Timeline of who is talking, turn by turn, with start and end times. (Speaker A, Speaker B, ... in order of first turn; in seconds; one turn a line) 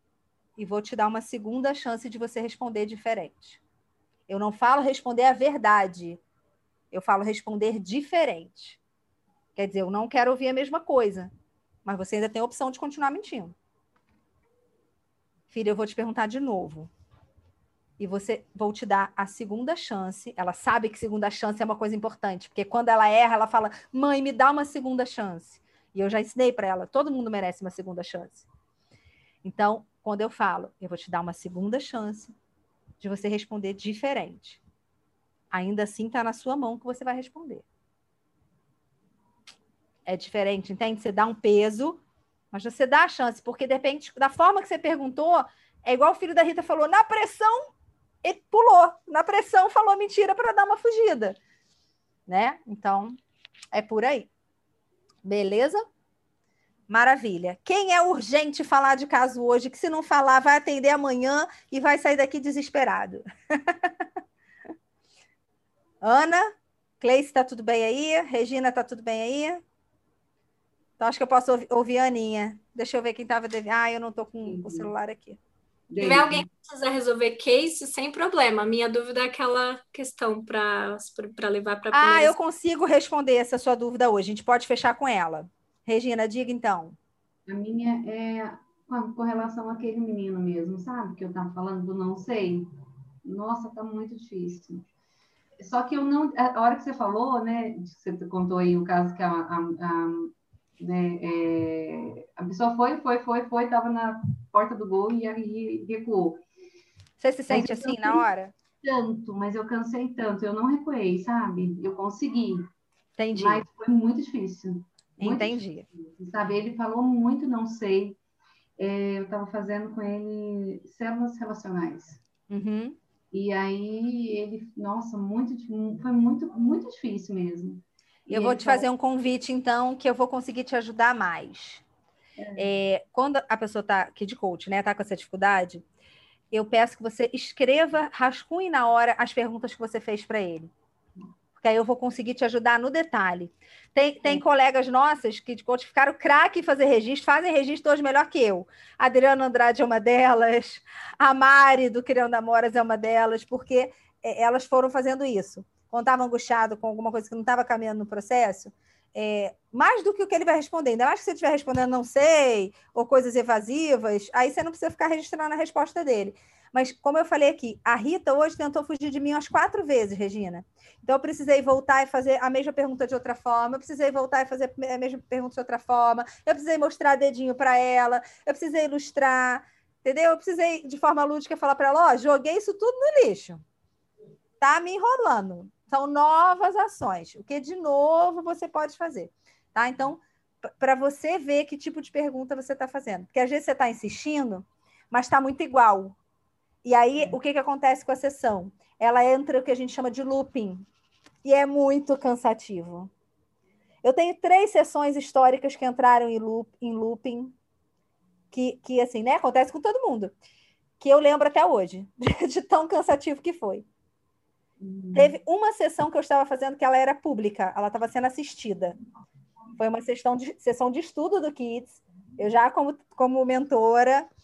Speaker A: 0.6-3.6
Speaker A: 4.3-6.2
Speaker A: 6.9-8.8
Speaker A: 9.6-11.3
Speaker A: 11.8-13.5
Speaker A: 15.5-16.9
Speaker A: 18.0-28.4
Speaker A: 29.4-32.3
Speaker A: 33.0-34.6
Speaker A: 35.5-37.6
Speaker A: 40.0-42.0
Speaker A: 42.5-47.7
Speaker A: 48.2-51.4
Speaker A: 52.3-53.1
Speaker A: 53.7-54.3
Speaker A: 55.2-55.8
Speaker A: 56.9-63.9
Speaker A: 66.0-69.6
Speaker A: 71.0-75.4
Speaker B: 74.5-74.9
Speaker B: 75.9-76.4
Speaker C: 76.0-82.3
Speaker A: 81.9-87.0
Speaker B: 87.5-92.7
Speaker B: 93.2-94.8
Speaker B: 95.6-106.4
Speaker A: 107.2-108.5
Speaker B: 107.5-108.2
Speaker B: 108.8-112.7
Speaker A: 113.2-113.7
Speaker B: 113.3-118.2
Speaker A: 115.2-115.8
Speaker B: 118.8-122.2
Speaker A: 122.5-123.0
Speaker B: 123.3-128.8
Speaker A: 128.3-131.8
Speaker B: 132.4-132.7
Speaker A: 132.6-135.8
Speaker A: 136.5-140.7
Speaker A: 141.6-183.6
Speaker A: 184.6-196.2
Speaker A: 196.8-200.8
Speaker A: 201.4-203.1
Speaker A: 204.0-207.5
Speaker A: 208.5-210.3
Speaker A: 211.0-213.8
Speaker B: 214.8-215.3
Speaker A: 215.1-218.9
Speaker A: 219.8-224.3